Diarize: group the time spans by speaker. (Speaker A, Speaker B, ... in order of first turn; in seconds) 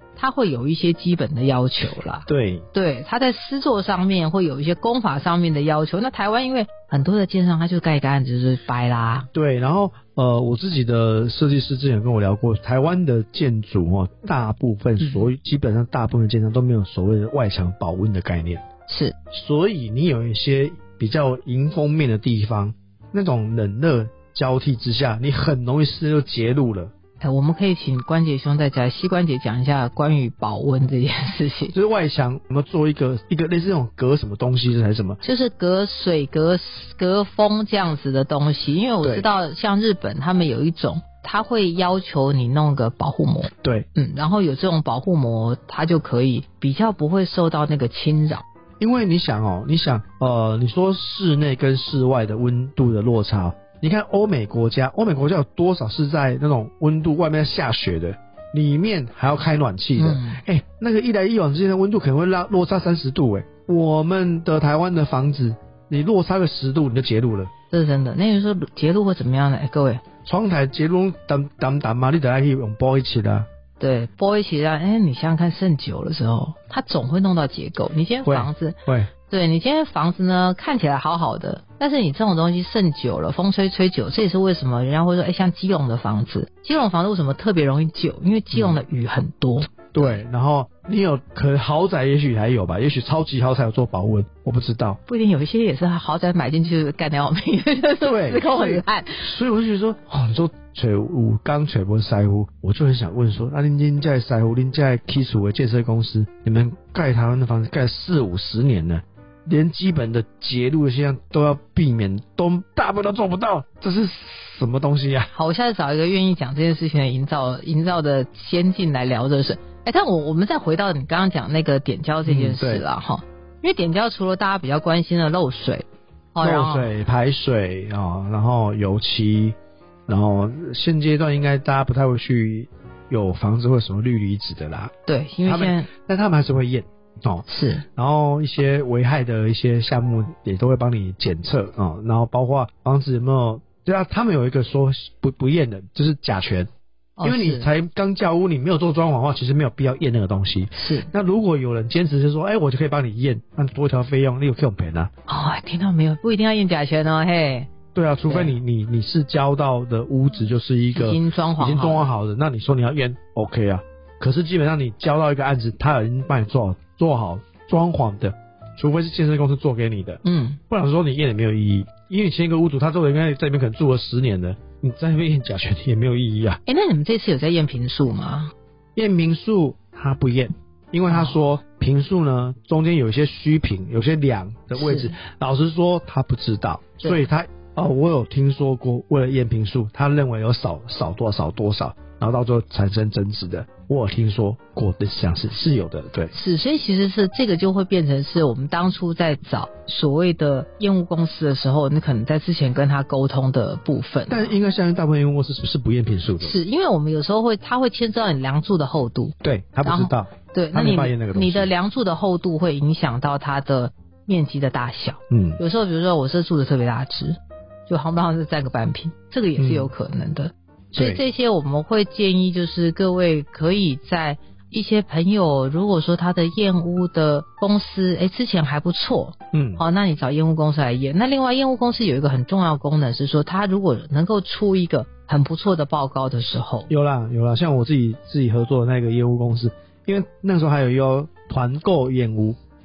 Speaker A: 0.2-9.3, 15.0-15.3, 18.9-19.1, 27.2-31.7, 35.2-48.4, 60.0-60.4, 67.7-70.0, 73.8-90.2, 95.1-99.3, 115.3-126.9, 135.1-135.9, 137.5-137.8, 147.2-147.7, 150.7-151.1, 155.3-157.7, 158.3-158.5, 160.9-162.1, 170.2-170.6, 176.7-178.5, 181.1-181.3, 184.8-185.1, 196.3-204.6, 206.4-236.9
Speaker B: 2.3-2.6, 9.3-18.6, 19.3-26.9, 31.7-35.2, 48.8-67.5, 70.2-73.5, 78.2-79.1, 88.5-88.8, 89.9-95.0, 98.0-115.3, 122.2-122.8, 126.4-134.9, 135.4-137.4, 137.9-146.7, 147.2-155.1, 157.9-176.6, 178.9-196.3, 204.3-206.6, 209.4-211.7, 215.3-215.6, 219.6-219.9, 220.9-221.2, 229.5-229.8, 236.9-242.6